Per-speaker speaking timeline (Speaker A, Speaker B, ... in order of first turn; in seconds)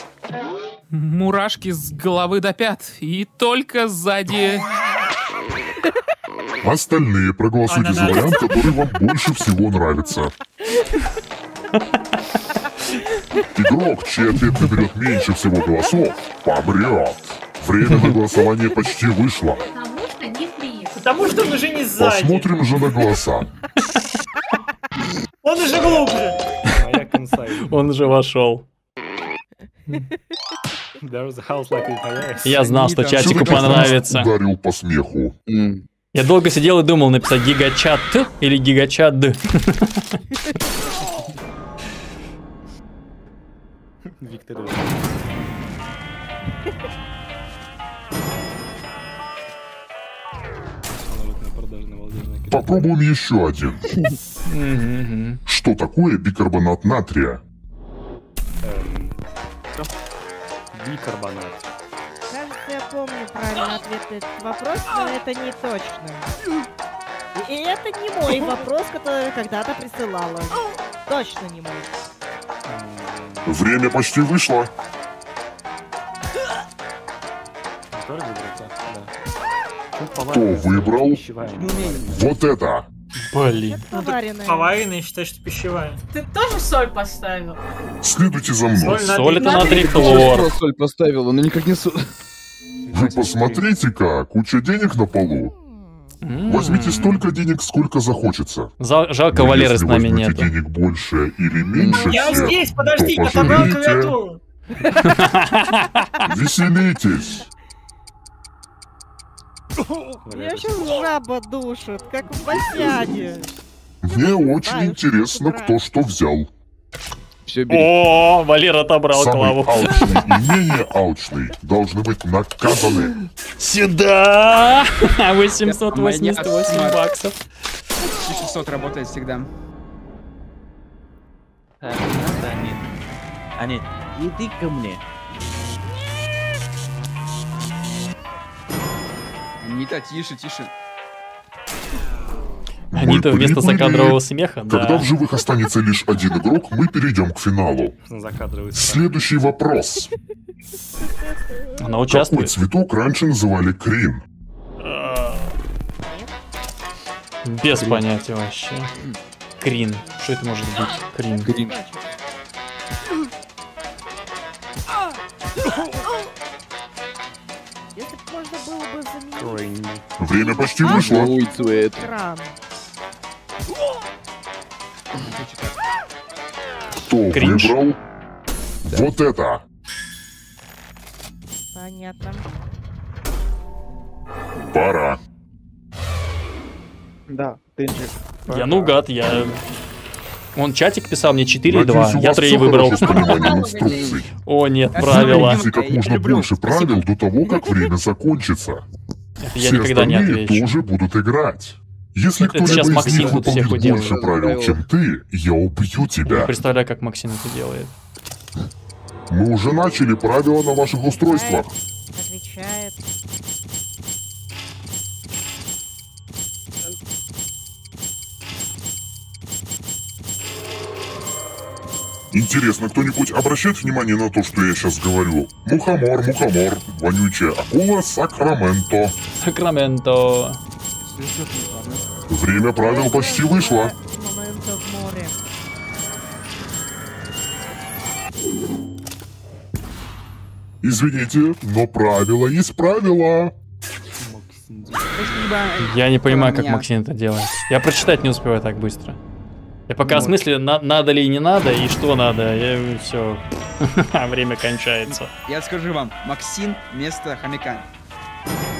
Speaker A: 0.9-4.7
Speaker B: 6.6-10.3, 13.5-19.6, 22.0-23.5, 33.2-35.3, 52.5-53.8, 55.5-57.4, 73.4-74.7, 80.3-81.2, 82.1-82.9, 88.0-89.1, 92.9-95.5, 96.5-98.7, 99.3-104.2, 106.2-107.5, 114.0-116.5, 119.1-123.1, 142.9-147.9, 148.8-150.1, 152.1-154.2, 170.2-171.3, 177.0-178.0, 178.9-179.6, 184.7-185.2, 191.7-194.3, 195.0-198.8, 199.6-206.6, 209.3-211.7, 222.3-229.2, 232.3-233.9, 240.8-243.5
Speaker C: 7.7-8.6, 20.9-22.9, 25.4-26.4, 83.9-86.0, 88.7-90.3, 101.9-104.4
Speaker D: 17.9-18.1, 27.6-28.6, 32.4-34.3, 36.1-40.1, 54.5-55.4, 83.2-83.8, 89.0-90.5, 96.2-97.2, 98.8-100.5, 105.0-106.0, 117.7-120.2, 123.6-127.4, 142.9-145.1, 151.8-152.6, 154.8-155.5, 157.4-158.9, 159.6-161.5, 177.3-177.8, 188.5-189.6, 190.5-193.3, 194.4-195.6, 199.4-200.7, 202.4-204.2, 206.2-207.9, 229.4-230.6, 245.8-249.2, 249.9-255.3
Speaker E: 19.7-21.2, 86.1-87.6, 192.8-194.2
Speaker F: 26.7-27.8, 31.0-32.8, 44.2-45.0, 50.9-52.8, 58.6-59.2, 60.7-61.7, 68.3-68.6, 72.7-73.6, 77.9-79.1, 79.9-82.3, 92.8-93.7, 110.2-111.1, 148.0-149.0, 169.3-170.0, 244.2-245.6, 250.1-250.4
Speaker G: 32.5-33.9, 81.5-82.0, 125.6-127.0, 128.1-129.5, 139.6-140.7, 175.2-175.8, 194.9-197.1, 231.2-231.5, 245.2-246.8, 255.4-257.9
Speaker H: 35.5-35.9, 89.5-92.0, 101.7-102.2, 117.5-117.9, 157.7-158.0, 161.4-161.8, 170.8-172.1, 202.6-204.8
Speaker I: 62.3-66.3, 67.3-71.9, 83.5-84.8, 95.4-96.2, 110.3-113.5, 114.1-115.8, 156.0-156.3, 160.2-162.1, 167.9-169.7, 170.2-172.6, 181.7-182.5, 211.2-213.0, 232.7-235.4
Speaker J: 131.8-132.9, 133.6-135.0, 187.3-188.9